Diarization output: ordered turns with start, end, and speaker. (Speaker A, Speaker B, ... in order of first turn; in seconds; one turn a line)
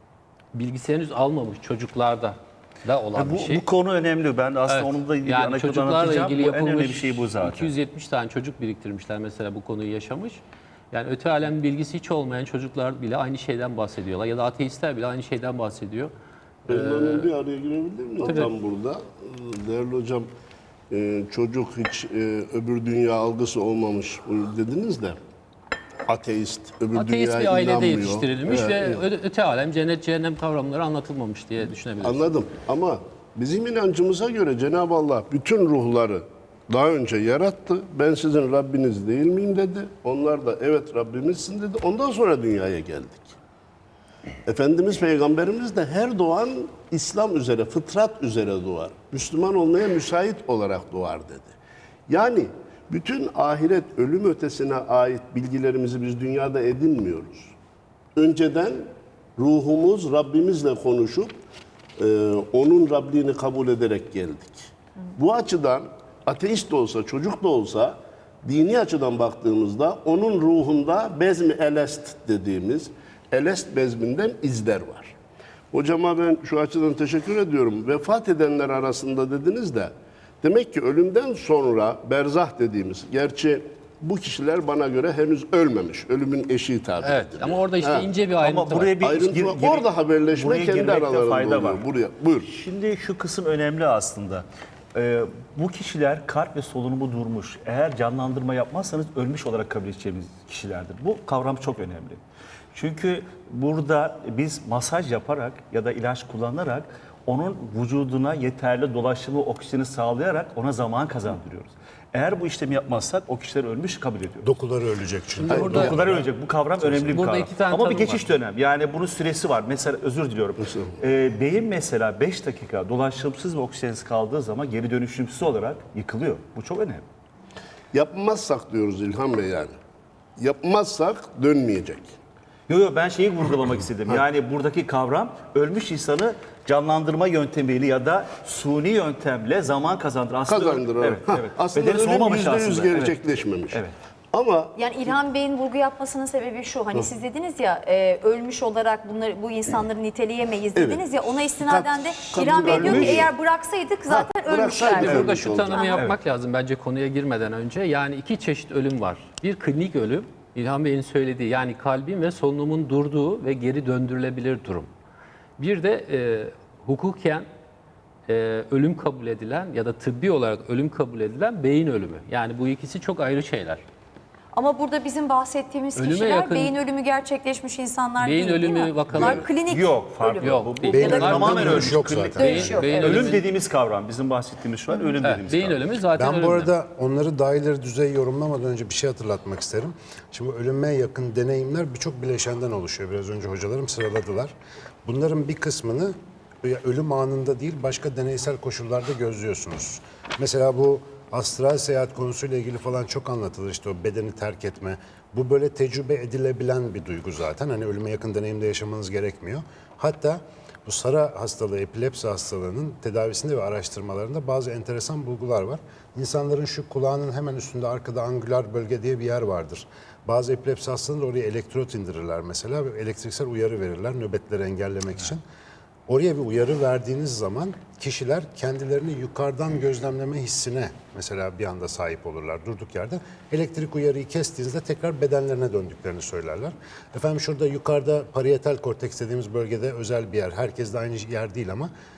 Speaker A: 0.5-3.6
Speaker B: 3.1-7.7
Speaker A: 4.7-16.1
Speaker C: 16.7-20.3
Speaker A: 16.7-17.3
Speaker A: 18.2-18.5
Speaker C: 20.9-25.2
Speaker C: 26.1-29.0
Speaker A: 26.9-32.3
Speaker C: 32.0-43.4
Speaker C: 44.5-51.5
Speaker C: 52.1-57.5
Speaker C: 58.1-61.3
Speaker C: 62.0-75.1
Speaker C: 75.7-88.1
Speaker A: 87.0-88.9
Speaker B: 88.4-91.9
Speaker C: 89.0-92.5
Speaker B: 92.5-102.2
Speaker B: 102.7-114.5
Speaker D: 114.4-116.3
Speaker B: 115.4-127.0
Speaker C: 115.4-116.0
Speaker A: 117.0-118.3
Speaker C: 120.6-120.9
Speaker C: 127.9-129.7
Speaker C: 130.4-132.2
Speaker B: 132.7-143.9
Speaker C: 140.5-144.7
Speaker E: 144.8-156.0
Speaker C: 150.7-153.3
Speaker B: 152.4-153.3
Speaker C: 154.1-155.8
Speaker A: 154.8-164.9
Speaker A: 165.6-167.4
Speaker A: 168.3-173.8
Speaker E: 174.5-181.8
Speaker A: 175.9-176.7
Speaker A: 178.2-179.5
Speaker B: 179.1-185.8
Speaker A: 180.4-183.4
Speaker D: 180.8-182.8
Speaker E: 182.3-183.4
Speaker A: 185.2-186.7
Speaker D: 186.1-194.5
Speaker D: 195.0-225.4
Speaker D: 226.1-241.9